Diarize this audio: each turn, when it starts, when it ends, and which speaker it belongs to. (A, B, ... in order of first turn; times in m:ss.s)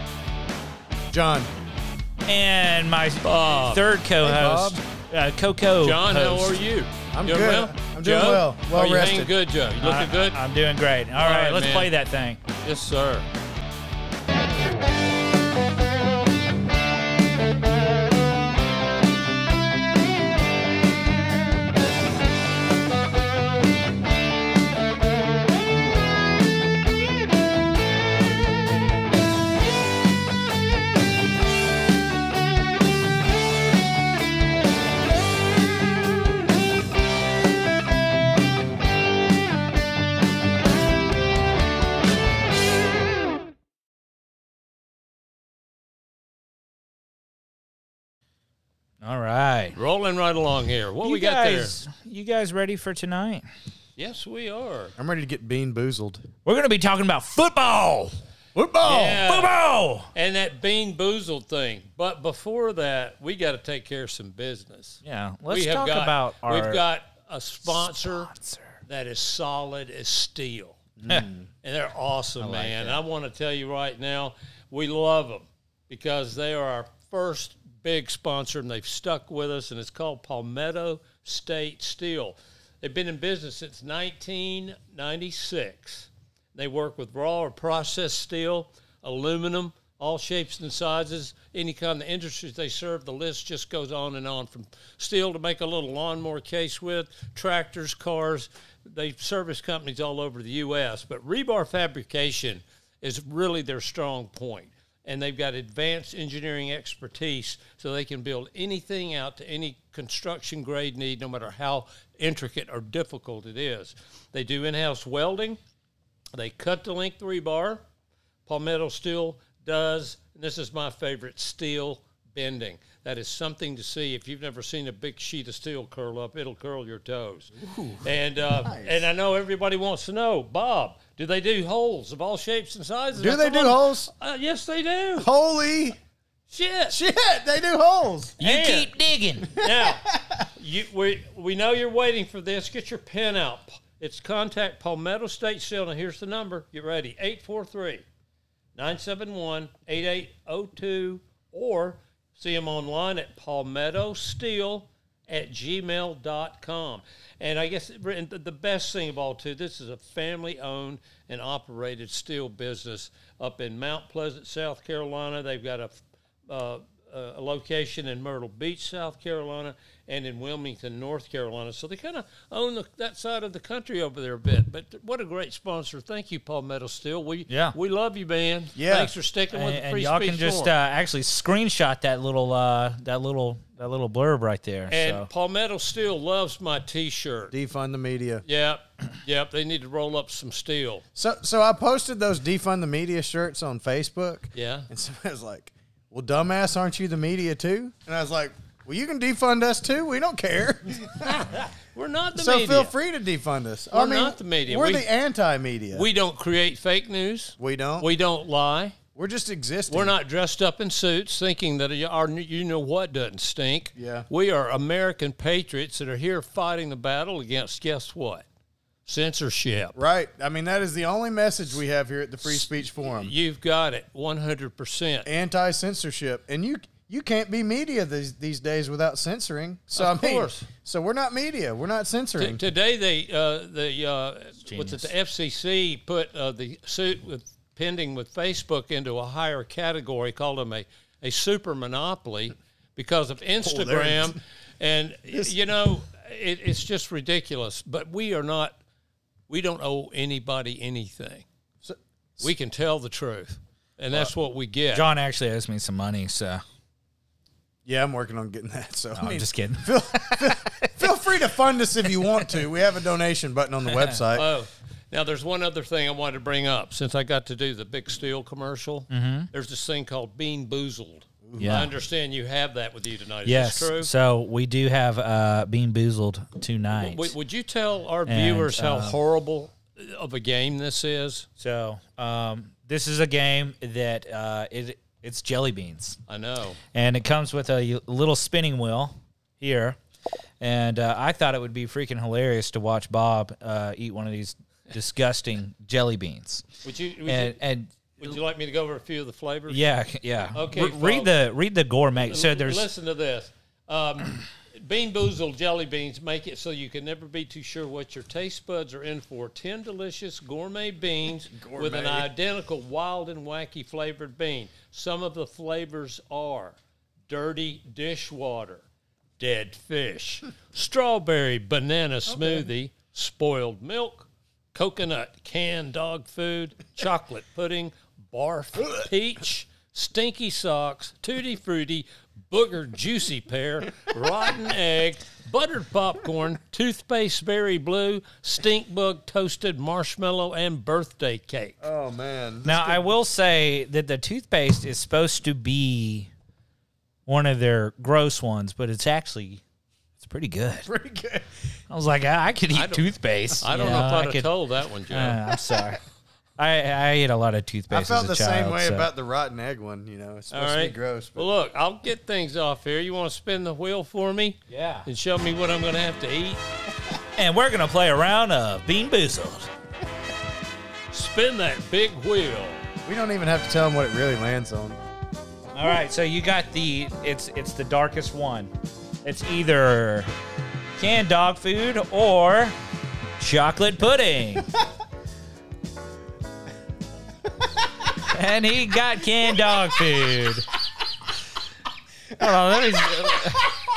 0:01.1-0:01.5 A
0:02.3-0:06.6 B
0:03.2-0:03.8 C
0:04.2-0:04.8 A
0:05.8-0:10.4 C
0:07.1-0:09.3 A
0:09.8-0:12.4 B
0:11.2-0:11.9 C
0:12.6-0:13.2 C
0:49.0-0:49.8 B
0:49.8-0:51.8 C
0:51.0-0:53.4 B
0:54.0-0:54.9 C
0:55.0-0:56.3 A
0:56.4-0:58.2 B
0:58.6-0:59.3 A
0:58.8-0:59.6 C
0:59.1-1:00.1 B
1:00.1-1:08.3 C
1:05.0-1:06.8 B
1:07.6-1:08.8 B
1:08.9-1:10.9 C
1:11.0-1:11.5 A
1:11.6-1:55.6 C
1:12.4-1:13.0 B
1:56.3-1:57.8 C
1:58.4-2:15.3 C
2:07.6-2:09.0 A
2:13.1-2:14.1 A
2:15.2-2:16.0 A
2:16.5-2:17.0 C
2:16.9-2:18.4 A
2:18.4-2:18.9 C
2:18.4-2:19.5 B
2:19.5-2:28.0 C
2:19.6-2:20.4 A
2:28.7-3:00.7 C
2:57.5-2:57.7 B
2:58.8-2:59.1 A
2:59.5-3:05.3 B
3:04.9-3:07.5 C
3:07.5-3:08.4 A
3:08.4-3:11.0 C
3:11.2-3:21.5 A
3:14.5-3:14.9 C
3:21.2-3:22.9 C
3:22.3-3:26.1 A
3:23.9-3:25.1 C
3:25.9-3:29.0 C
3:27.6-3:28.1 A
3:29.2-3:30.1 A
3:29.9-3:38.4 C
3:34.0-3:34.3 A
3:39.0-3:40.0 C
3:39.9-3:43.3 A
3:42.4-3:45.3 C
3:45.2-3:52.6 A
3:50.0-3:50.7 C
3:52.4-4:08.8 C
3:54.6-3:55.1 B
4:03.6-4:04.4 A
4:05.3-4:05.6 A
4:09.5-4:11.4 C
4:11.8-4:12.5 A
4:12.4-4:15.1 C
4:14.9-4:16.6 B
4:17.8-4:24.5 A
4:19.2-4:21.1 B
4:23.9-4:24.2 B
4:24.3-4:34.1 C
4:29.1-4:29.5 B
4:31.4-4:31.8 A
4:31.6-4:31.9 B
4:33.4-4:37.3 B
4:37.0-4:41.4 C
4:38.3-4:39.2 B
4:41.6-4:46.2 B
4:46.3-4:46.8 C
4:46.9-4:50.0 B
4:50.6-4:56.6 B
4:56.8-4:57.6 C
4:57.2-4:58.4 B
4:58.2-4:59.8 C
4:59.7-5:02.9 B
5:00.5-5:01.3 C
5:02.2-5:18.8 C
5:11.5-5:12.3 A
5:19.4-5:41.8 C
5:22.3-5:22.6 A
5:41.8-5:43.0 A
5:42.6-5:46.3 B
5:47.2-5:49.6 B
5:50.2-5:50.9 B
5:50.8-5:51.5 A
5:51.9-5:54.5 B
5:52.7-5:53.1 C
5:53.6-5:55.4 C
5:55.1-5:56.0 B
5:56.6-5:59.1 B
5:57.9-6:01.5 A
6:00.5-6:06.6 C
6:04.7-6:05.1 B
6:07.4-6:09.7 B
6:11.1-6:12.8 C
6:13.0-6:15.0 A
6:15.7-6:18.7 B
6:19.2-6:20.3 B
6:21.0-6:22.8 B
6:23.4-6:24.7 B
6:28.2-6:30.7 B
6:32.4-6:33.7 B
6:32.4-6:33.7 A